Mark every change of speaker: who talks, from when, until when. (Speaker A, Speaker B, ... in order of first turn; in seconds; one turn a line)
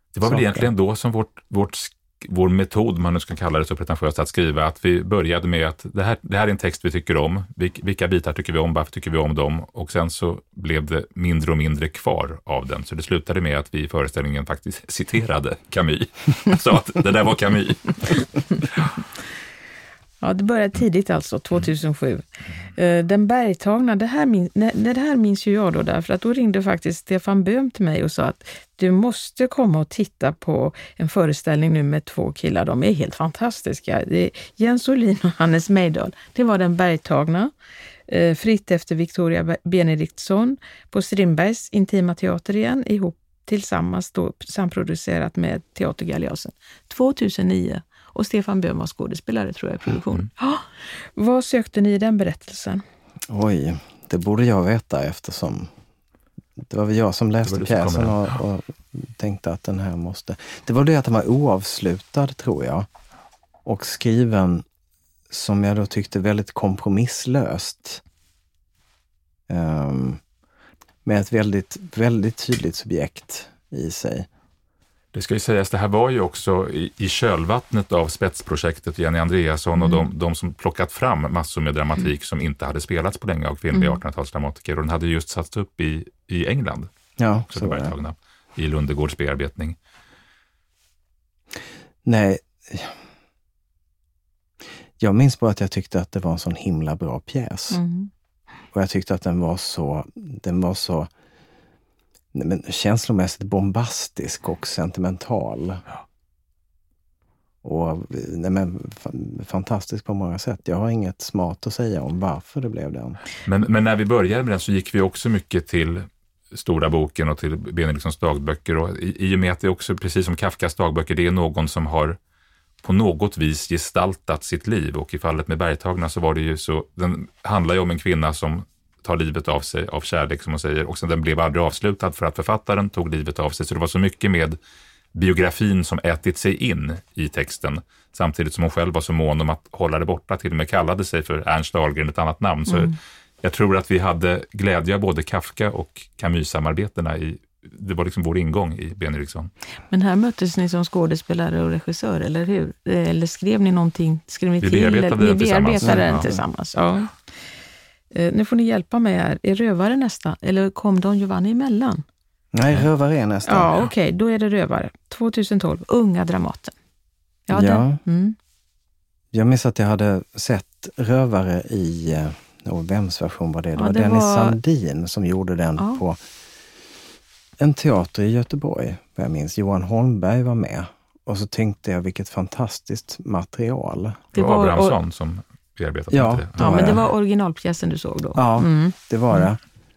Speaker A: 0.1-19.0
Speaker B: 0.2-0.7
Speaker C: 20.2-37.5
Speaker C: 38.1-52.8
Speaker B: 53.3-55.7
Speaker B: 56.6-62.9
Speaker A: 57.4-58.3
Speaker B: 63.6-64.6
Speaker B: 65.3-68.0
Speaker B: 69.5-70.2
Speaker B: 71.0-74.3
Speaker A: 75.1-86.9
Speaker C: 83.7-84.0
Speaker B: 87.2-87.9
Speaker A: 87.5-89.8
Speaker B: 92.0-93.0
Speaker B: 95.0-97.8
Speaker C: 97.7-98.1
Speaker B: 98.7-101.1
Speaker B: 102.3-105.8
Speaker B: 107.6-113.2
Speaker A: 113.4-122.2
Speaker A: 122.8-134.6
Speaker A: 135.1-149.5
Speaker C: 142.7-142.9
Speaker C: 149.9-157.1
Speaker A: 154.6-156.3
Speaker B: 155.8-156.3
Speaker C: 158.1-162.0
Speaker B: 162.5-163.7
Speaker C: 163.4-166.7
Speaker C: 167.5-168.4
Speaker B: 167.5-168.0
Speaker B: 169.3-176.2
Speaker C: 173.8-174.6
Speaker B: 177.6-184.2
Speaker C: 184.3-184.9
Speaker A: 184.3-187.0
Speaker B: 186.1-187.0
Speaker C: 186.6-188.9
Speaker B: 188.3-189.6